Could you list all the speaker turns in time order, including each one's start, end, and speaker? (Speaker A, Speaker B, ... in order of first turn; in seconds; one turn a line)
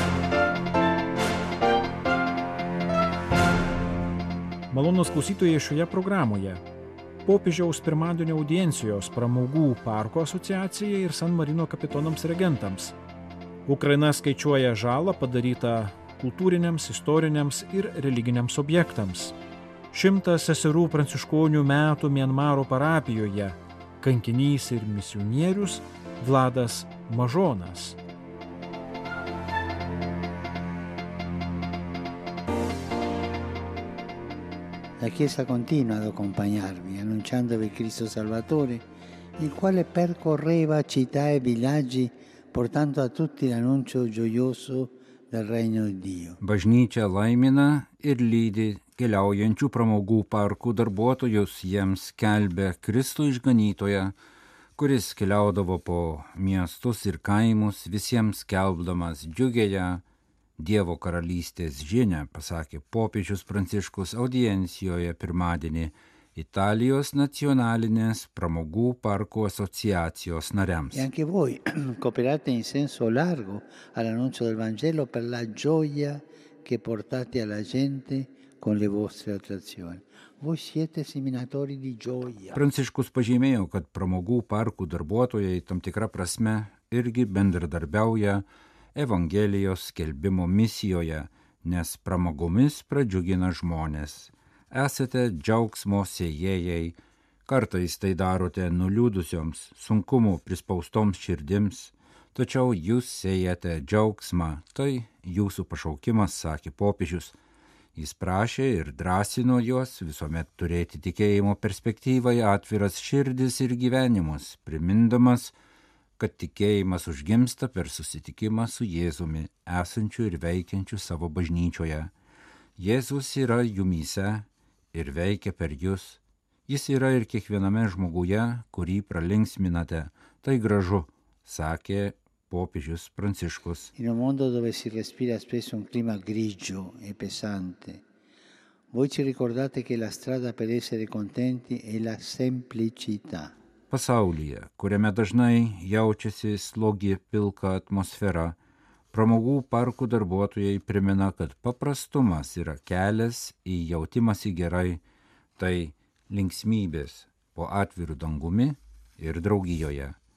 Speaker A: 4.7-6.6
Speaker A: 7.2-13.0
Speaker A: 13.7-19.4
Speaker A: 19.9-28.0
Speaker B: 35.0-38.9
Speaker B: 39.4-46.4
Speaker C: 46.4-54.1
Speaker C: 54.8-60.0
Speaker C: 60.6-71.1
Speaker B: 70.9-82.6
Speaker C: 82.5-107.4
Speaker C: 108.0-115.5
Speaker C: 116.2-122.1
Speaker C: 122.8-133.9
Speaker B: 134.0-138.0
Speaker B: 138.9-143.5
Speaker C: 143.9-148.6
Speaker C: 149.1-155.0
Speaker C: 155.6-160.2